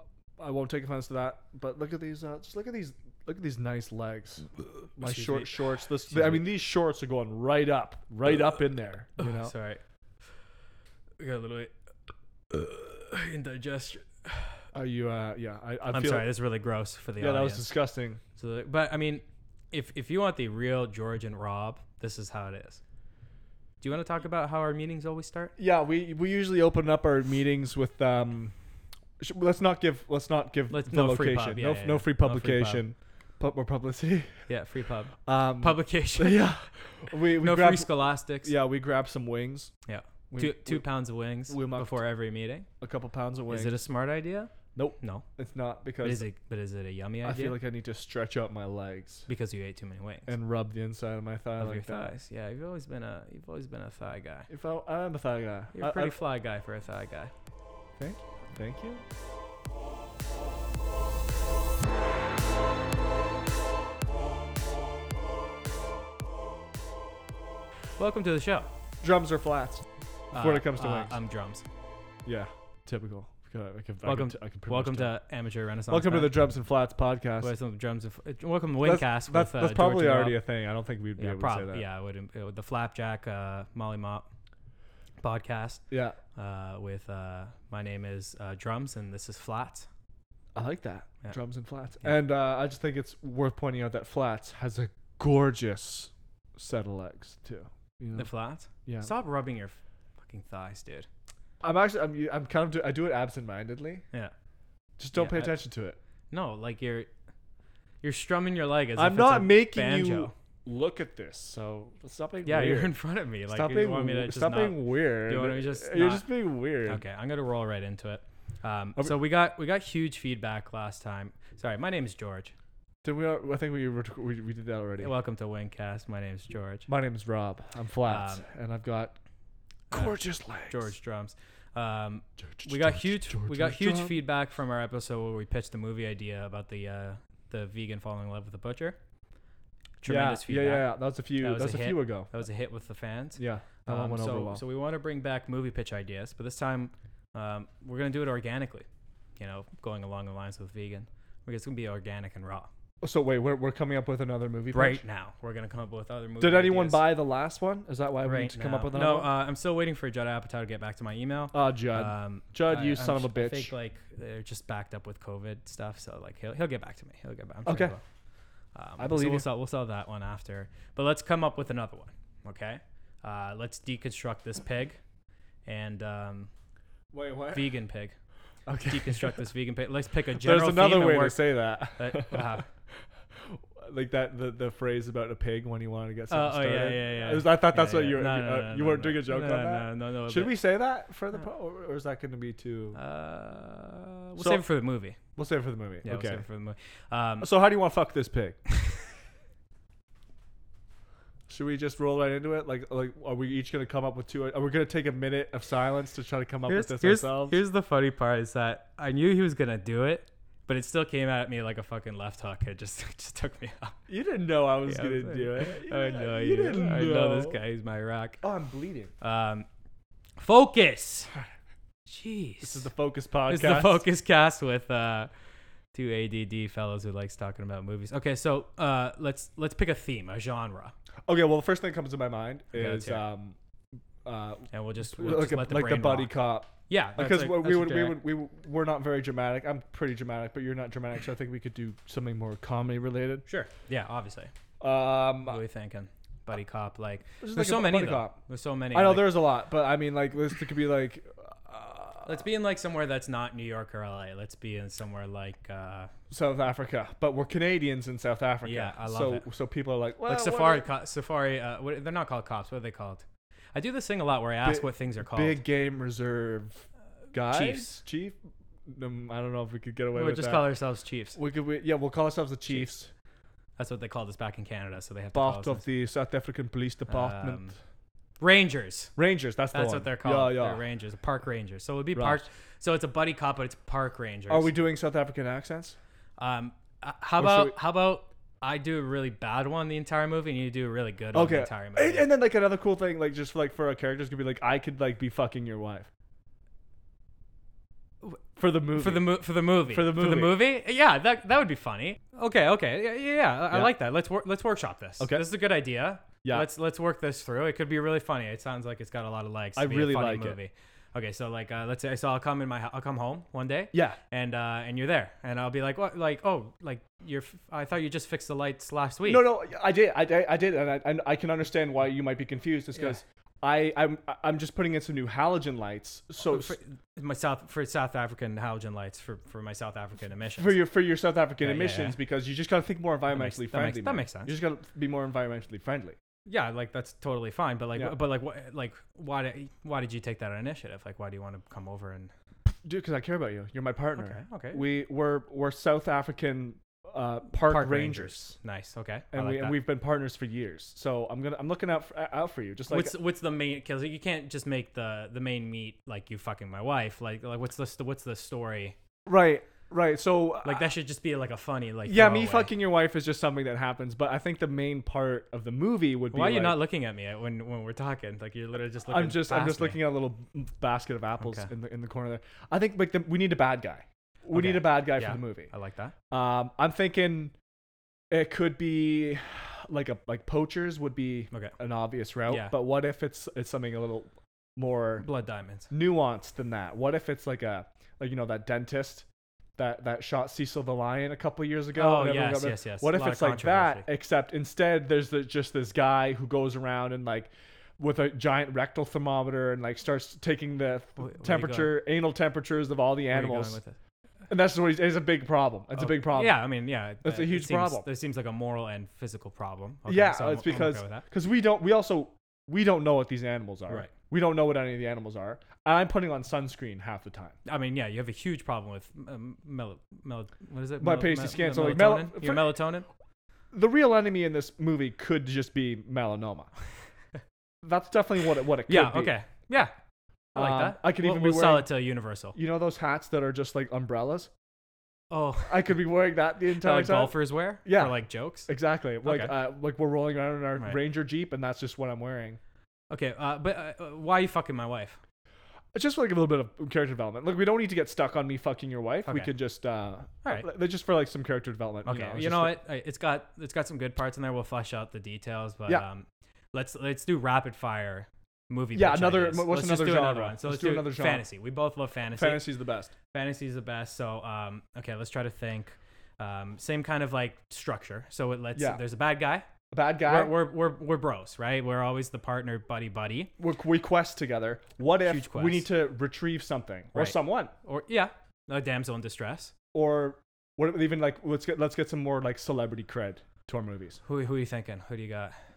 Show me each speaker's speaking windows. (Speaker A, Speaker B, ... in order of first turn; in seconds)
Speaker A: 0.4-9.5, 14.7-16.3, 17.2-18.2, 25.6-28.5, 29.2-34.5, 35.2-39.7, 40.3-42.0, 42.8-43.8, 44.7-46.3, 47.2-49.3, 50.3-52.1, 54.5-56.1, 58.0-59.0, 69.0-71.2, 72.2-75.2, 75.9-77.5, 78.8-81.8, 85.9-86.2, 90.5-99.1, 101.6-104.0, 105.0-106.0, 109.0-117.0, 123.0-125.1, 126.9-129.2, 129.9-130.9, 132.4-134.2, 140.1-142.3, 143.4-144.6, 153.0-155.0, 156.4-159.3, 161.5-163.7, 167.6-168.0, 169.0-169.4, 177.1-177.8, 178.7-179.4, 180.4-182.6, 183.3-193.0, 194.4-194.6, 195.3-196.4, 197.4-198.6, 201.5-207.6, 214.1-217.6, 218.4-219.1, 222.6-224.0, 231.3-233.6, 234.2-243.4, 244.8-245.6, 247.4-248.4, 248.9-252.4, 256.3-260.9, 264.6-268.4, 268.9-270.7, 271.3-273.1, 275.3-277.7, 279.2-280.8, 282.1-282.4, 284.5-285.9, 287.4-287.8, 291.3-296.1, 298.6-300.6, 305.2-305.4, 309.8-310.6, 313.9-314.2, 319.2-326.8, 330.6-336.2, 342.8-348.6, 349.3-353.1, 359.2-360.9, 362.1-366.8, 369.1-375.7, 376.3-377.5, 378.3-385.2, 385.9-389.2, 389.8-403.8, 404.5-406.7, 407.2-408.1, 410.1-417.6, 421.0-422.7, 423.7-426.7, 427.8-429.3, 430.5-431.9, 432.5-434.5, 435.6-442.6, 445.9-452.8, 458.9-461.4, 462.3-463.1, 468.7-469.0, 469.9-470.6, 473.6-477.7, 479.9-484.2
Speaker B: 5.0-6.4, 9.2-10.3, 11.2-11.7, 12.5-14.7, 15.9-17.7, 18.4-22.8, 23.8-25.5, 30.7-32.9, 34.5-36.6, 37.4-38.5, 39.9-42.7, 43.5-45.2, 46.0-47.6, 49.3-50.3, 51.6-54.5, 55.7-57.3, 68.0-68.7, 70.3-71.6, 74.0-76.4, 77.4-80.4, 81.2-84.3, 85.2-85.8, 86.3-89.9, 98.1-101.1, 105.1-105.6, 106.3-107.1, 108.0-110.3, 112.4-122.5, 125.0-126.9, 128.0-128.4, 129.9-139.0, 140.0-148.8, 149.4-152.7, 154.7-157.1, 158.2-168.0, 168.7-175.0, 175.6-176.5, 177.5-178.1, 178.8-182.7, 186.3-190.6, 192.9-195.2, 196.0-197.5, 206.7-213.9, 214.8-218.4, 219.2-219.7, 220.4-221.3, 222.1-222.9, 223.5-225.3, 225.9-230.9, 232.7-233.2, 234.7-236.3, 236.9-238.2, 243.4-244.5, 245.4-249.6, 252.2-256.1, 258.6-259.4, 260.2-265.6, 267.5-268.0, 270.1-271.4, 273.8-275.8, 277.1-277.8, 278.4-279.1, 279.7-284.7, 286.4-292.3, 298.9-319.5, 326.4-330.8, 331.6-332.2, 333.3-334.5, 336.5-342.3, 344.1-344.8, 347.6-349.7, 352.9-358.9, 360.6-362.7, 366.3-370.0, 371.4-371.7, 374.5-376.1, 381.5-381.8, 382.5-382.8, 385.2-385.9, 391.9-394.1, 401.2-402.0, 403.3-404.0, 405.9-411.2, 417.6-423.1, 428.9-429.9, 430.5-432.6, 435.3-435.9, 436.7-438.7, 439.2-439.6, 443.1-445.2, 449.2-449.5, 452.0-462.7, 463.3-469.6, 470.2-473.5, 475.2-475.9, 477.1-479.7, 484.2-485.5